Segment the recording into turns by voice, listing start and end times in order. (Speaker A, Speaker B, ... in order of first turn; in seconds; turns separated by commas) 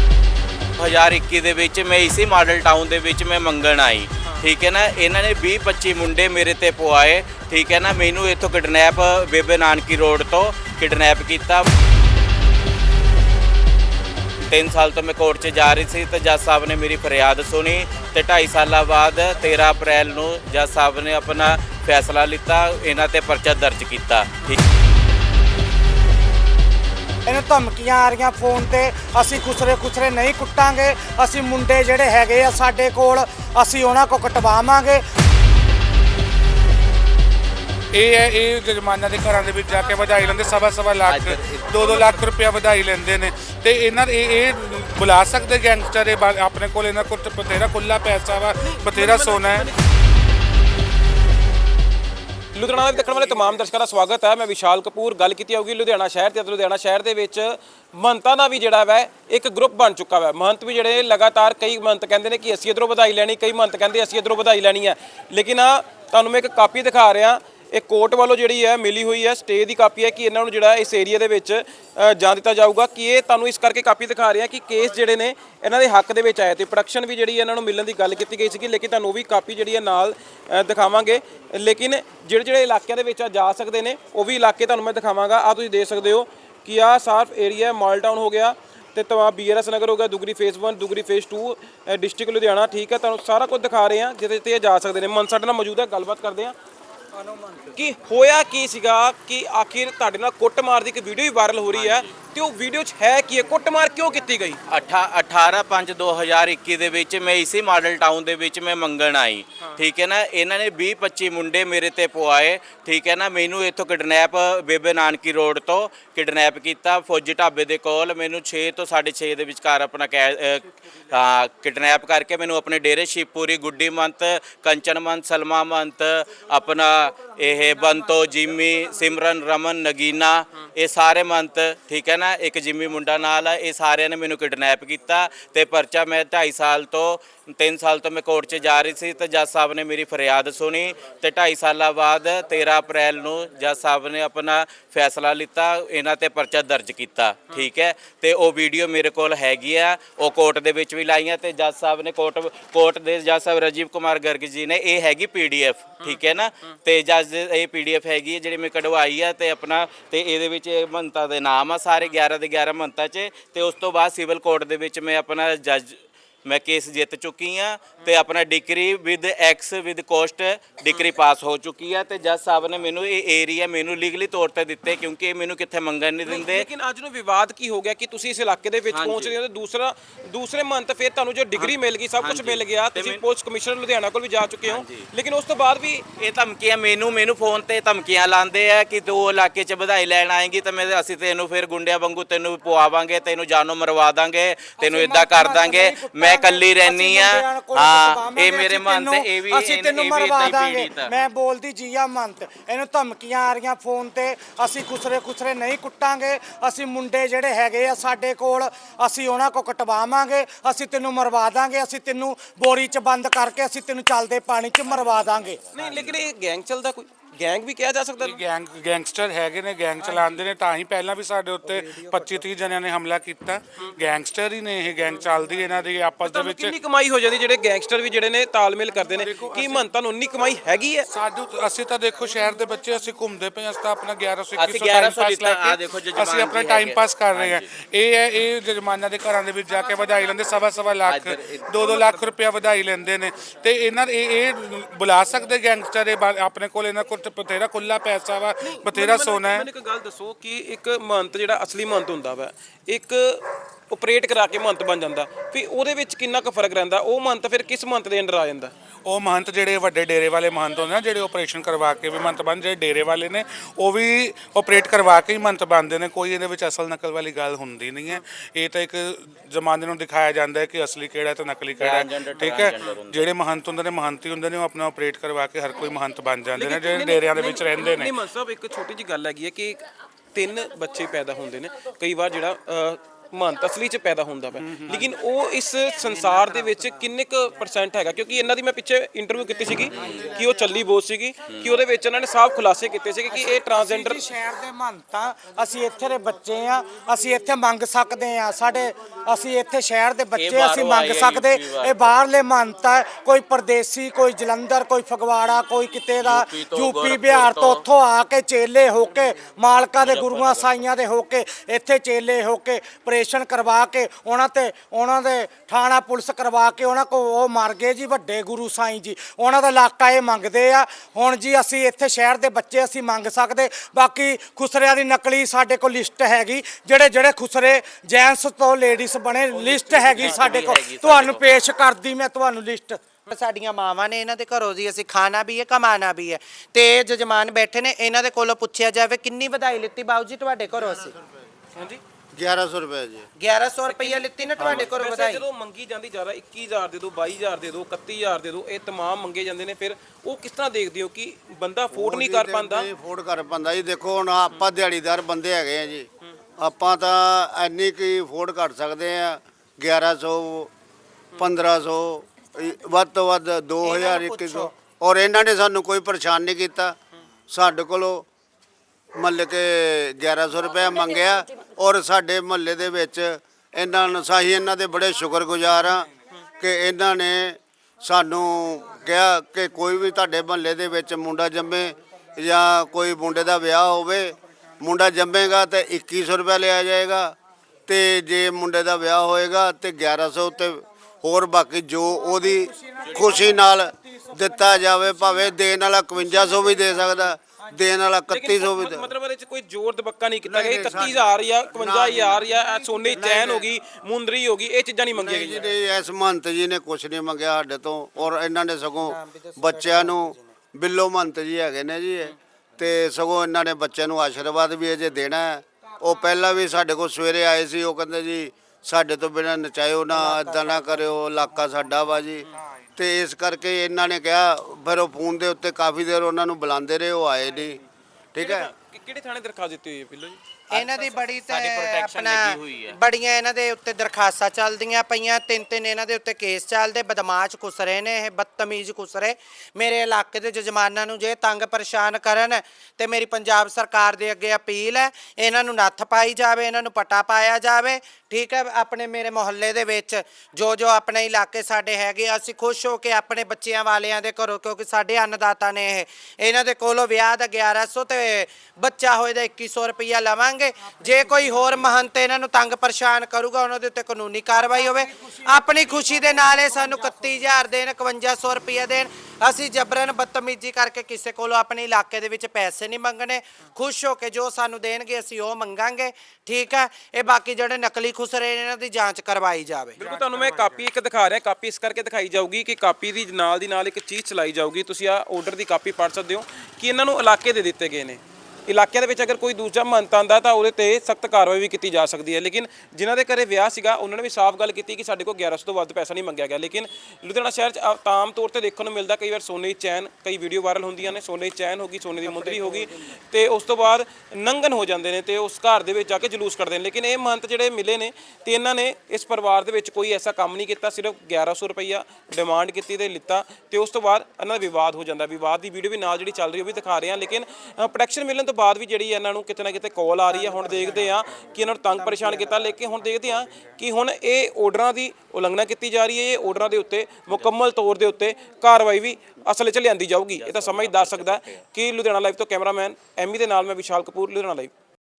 Speaker A: 0.8-11.7, Speaker A: 14.5-24.6, Speaker B: 27.2-35.0, Speaker C: 37.9-49.7, Speaker A: 41.0-42.1, Speaker D: 48.6-49.8, Speaker D: 52.5-96.5, Speaker B: 97.3-97.6, Speaker D: 97.8-104.6, Speaker A: 101.7-102.1, Speaker A: 104.7-176.7, Speaker D: 156.0-156.7, Speaker D: 176.3-186.0, Speaker A: 178.9-179.3, Speaker A: 181.6-183.2, Speaker A: 184.7-185.1, Speaker A: 186.2-201.1, Speaker B: 194.8-215.6, Speaker A: 214.9-216.2, Speaker D: 215.7-218.4, Speaker C: 218.2-226.7, Speaker D: 226.2-231.1, Speaker C: 229.1-229.8, Speaker C: 231.1-249.7, Speaker A: 234.6-237.6, Speaker A: 241.0-242.0, Speaker D: 248.6-258.7, Speaker C: 259.0-278.1, Speaker A: 271.8-273.3, Speaker D: 276.5-279.8, Speaker D: 280.3-294.3, Speaker C: 284.6-285.0, Speaker E: 289.7-290.6, Speaker A: 289.9-290.3, Speaker A: 291.5-291.8, Speaker B: 293.3-333.0, Speaker A: 300.3-302.1, Speaker A: 306.2-307.9, Speaker A: 309.7-310.9, Speaker A: 329.5-331.4, Speaker F: 333.3-341.1, Speaker E: 342.3-343.3, Speaker F: 343.4-345.4, Speaker D: 343.9-352.9, Speaker E: 351.9-356.1, Speaker E: 356.6-360.7, Speaker E: 361.4-366.9, Speaker F: 363.8-364.7, Speaker E: 367.5-368.2, Speaker E: 369.1-376.1, Speaker E: 376.6-387.3, Speaker E: 387.9-399.1, Speaker B: 392.1-395.5, Speaker B: 396.2-397.7, Speaker D: 398.3-405.7, Speaker E: 400.4-402.4, Speaker B: 402.6-403.1, Speaker E: 403.1-403.6, Speaker E: 405.1-427.8, Speaker F: 409.0-410.4, Speaker F: 420.2-420.7, Speaker E: 428.3-428.7, Speaker D: 428.4-430.4, Speaker F: 430.7-480.0, Speaker A: 430.7-433.0, Speaker B: 466.0-466.9, Speaker D: 480.0-534.7, Speaker C: 480.0-480.8, Speaker A: 530.4-531.6